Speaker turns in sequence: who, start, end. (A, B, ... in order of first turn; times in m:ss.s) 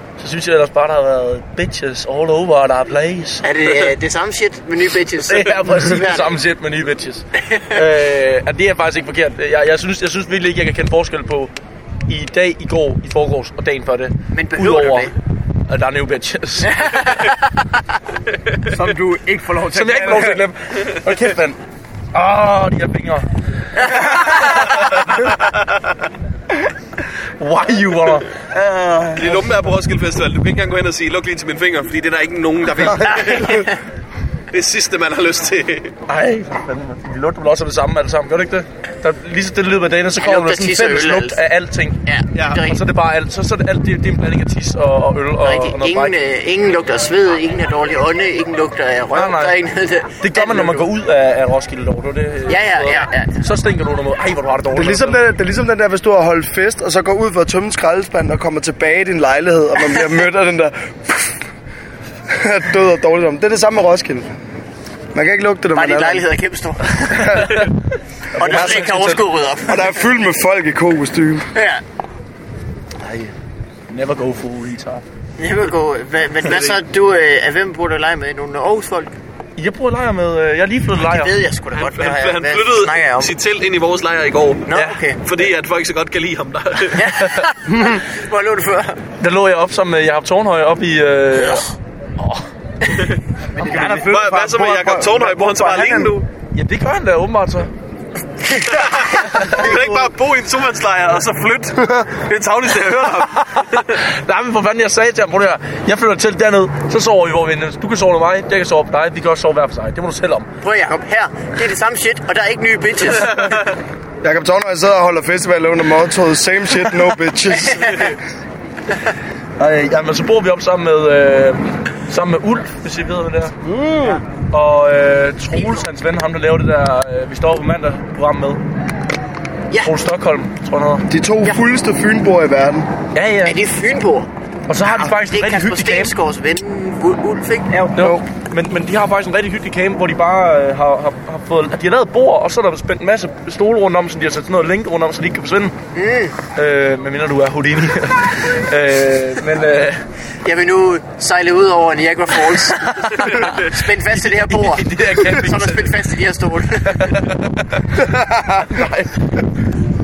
0:00.2-0:03.4 A
0:03.4-0:06.4 B
0:05.2-0:11.5 A
0:12.1-0:15.1 A
0:14.3-0:15.1 B
0:15.7-0:16.9 A
0:16.7-0:17.4 B
0:18.7-0:20.4 C
0:19.7-0:21.6 A
0:22.1-0:23.3 A
0:23.8-0:25.2 A
0:23.9-0:24.2 B
0:27.4-0:28.3 A
0:28.5-0:29.4 C
0:29.2-0:33.7 D
0:33.0-0:33.8 B
0:34.5-0:36.0 D
0:36.1-0:42.0 A
0:40.2-0:41.4 B
0:42.1-0:42.8 B
0:42.6-0:46.2 A
0:45.4-0:50.9 B
0:49.1-0:49.6 A
0:50.2-0:55.2 A
0:52.5-0:53.4 B
0:54.7-1:01.4 E
1:02.3-1:04.3 E
1:05.1-1:06.3 E
1:05.7-1:07.7 B
1:08.4-1:10.0 B
1:08.4-1:09.2 A
1:08.4-1:08.9 E
1:09.7-1:11.5 E
1:11.6-1:11.8 B
1:13.0-1:13.3 A
1:13.9-1:15.0 A
1:15.4-1:19.1 B
1:19.6-1:21.3 A
1:21.0-1:23.4 B
1:21.7-1:24.7 D
1:24.7-1:25.2 B
1:24.7-1:25.0 A
1:25.2-1:27.2 D
1:26.9-1:29.0 B
1:29.2-1:32.4 A
1:33.6-1:36.1 C
1:33.6-1:34.1 A
1:33.8-1:35.0 E
1:33.8-1:36.3 D
1:36.5-1:37.7 A
1:38.6-1:44.0 D
1:39.3-1:39.7 A
1:43.4-1:50.5 A
1:50.6-1:53.6 B
1:54.2-1:58.2 E
1:59.6-2:03.6 A
2:04.5-2:08.6 A
2:09.8-2:11.0 A
2:11.1-2:12.9 E
2:13.1-2:13.6 A
2:13.4-2:14.3 B
2:14.7-2:16.2 A
2:14.8-2:17.9 B
2:17.9-2:25.7 A
2:18.0-2:18.2 E
2:25.9-2:26.4 B
2:26.6-2:30.0 A
2:30.4-2:37.3 B
2:33.1-2:36.0 A
2:36.9-2:39.4 A